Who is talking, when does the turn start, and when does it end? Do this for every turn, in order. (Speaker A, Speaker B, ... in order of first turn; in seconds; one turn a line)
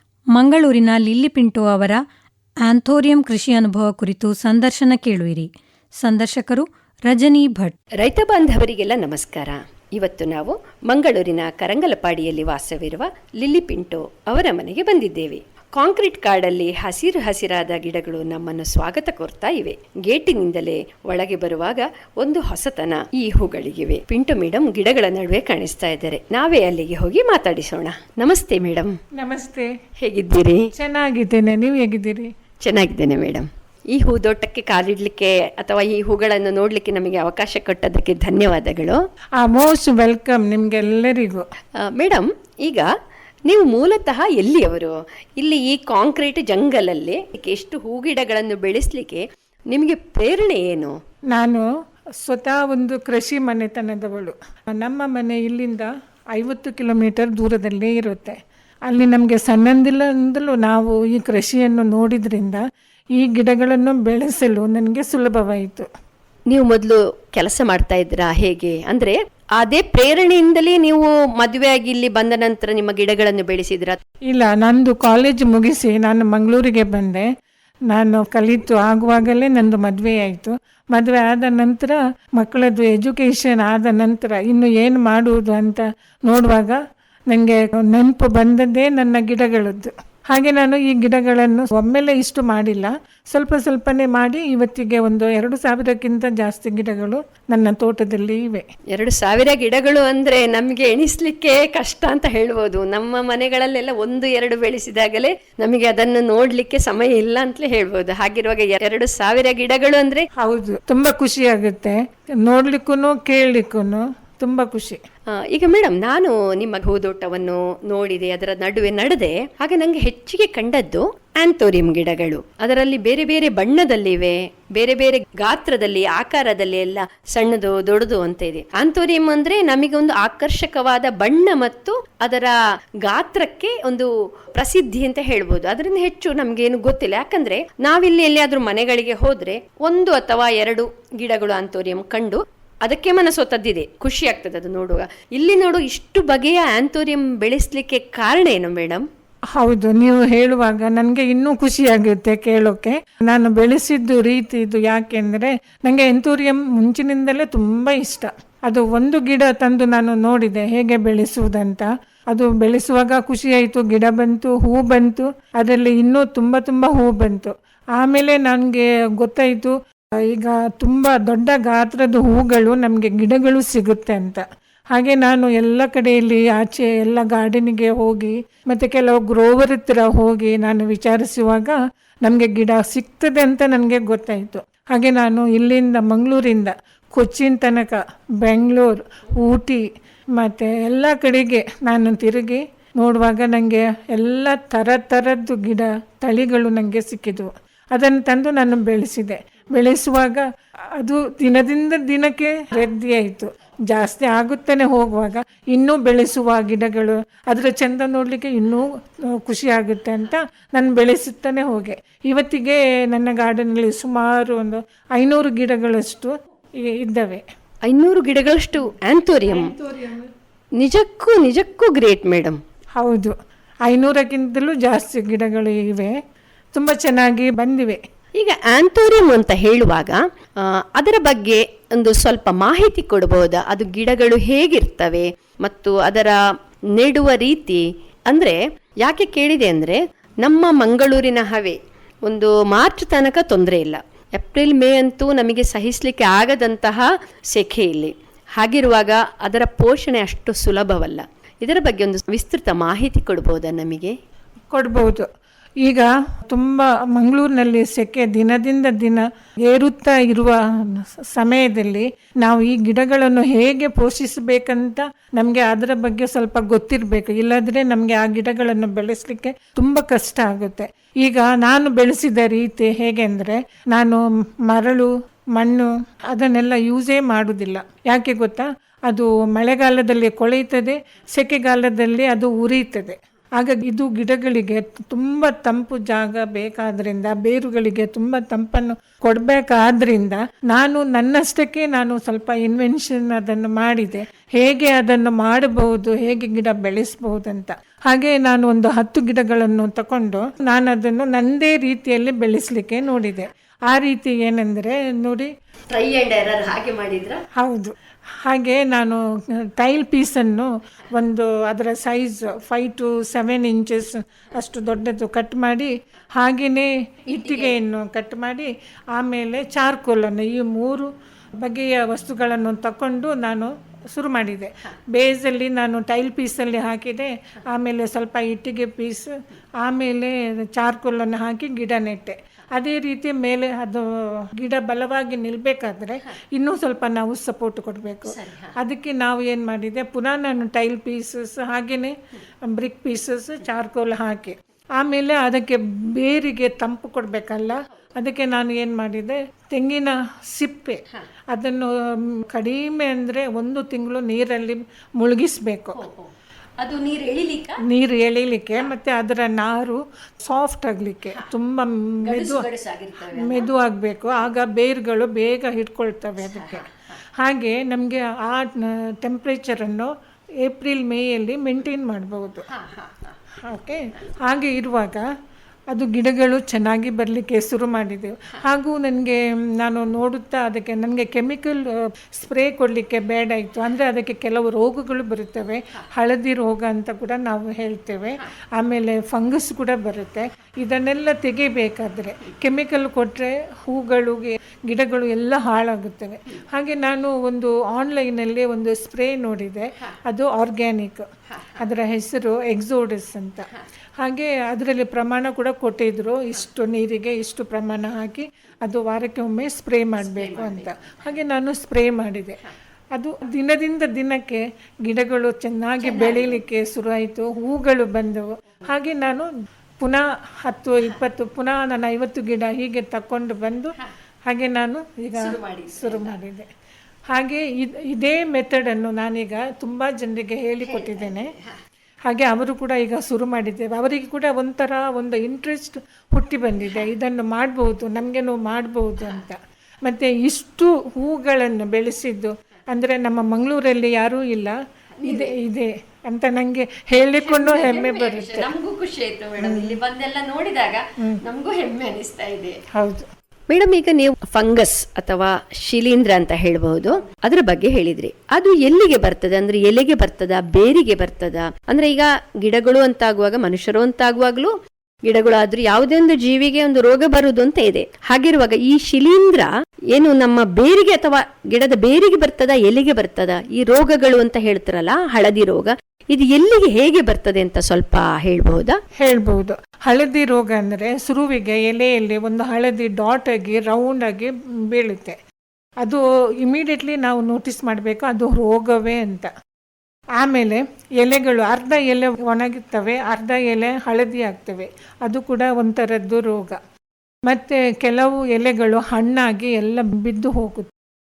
Speaker A: 0.3-2.0
Speaker A: 2.6-7.8
Speaker B: 8.0-29.0
Speaker C: 29.1-29.7
Speaker B: 30.0-30.7
Speaker C: 30.7-32.3
Speaker B: 32.6-39.0
Speaker C: 39.4-41.5
Speaker B: 41.8-42.9
Speaker B: 43.5-51.0
Speaker C: 51.3-51.7
Speaker C: 52.2-62.6
Speaker C: 63.1-65.9
Speaker B: 66.5-74.0
Speaker C: 74.3-77.3
Speaker C: 77.9-98.7
Speaker B: 98.9-110.3
Speaker C: 110.4-115.0
Speaker B: 115.3-149.1
Speaker C: 149.5-200.5
Speaker C: 201.0-217.4
Speaker B: 217.9-219.7
Speaker C: 219.4-220.3
Speaker B: 220.8-222.6
Speaker C: 223.0-223.3
Speaker C: 223.9-226.2
Speaker C: 226.7-228.0
Speaker B: 228.4-236.4
Speaker B: 236.9-254.2
Speaker C: 254.7-255.3
Speaker C: 255.8-305.5
Speaker B: 305.9-307.4
Speaker C: 307.6-356.0
Speaker B: 338.4-338.7
Speaker B: 355.9-356.3
Speaker B: 356.8-357.8
Speaker C: 357.9-362.7
Speaker B: 362.2-363.7
Speaker C: 363.2-372.7
Speaker B: 366.6-366.9
Speaker B: 372.7-373.3
Speaker C: 373.6-375.3
Speaker C: 375.9-412.6
Speaker B: 410.4-410.9
Speaker C: 413.1-423.9
Speaker B: 416.1-416.5
Speaker C: 424.5-426.7
Speaker B: 425.4-426.4
Speaker C: 427.3-431.5
Speaker C: 432.3-448.7
Speaker B: 445.2-445.5
Speaker B: 447.4-452.8
Speaker C: 449.6-450.0
Speaker C: 452.9-453.3
Speaker B: 453.7-464.7
Speaker B: 465.3-479.0
Speaker C: 479.2-485.4
Speaker C: 486.0-489.5
Speaker C: 490.4-496.8
Speaker C: 497.5-500.9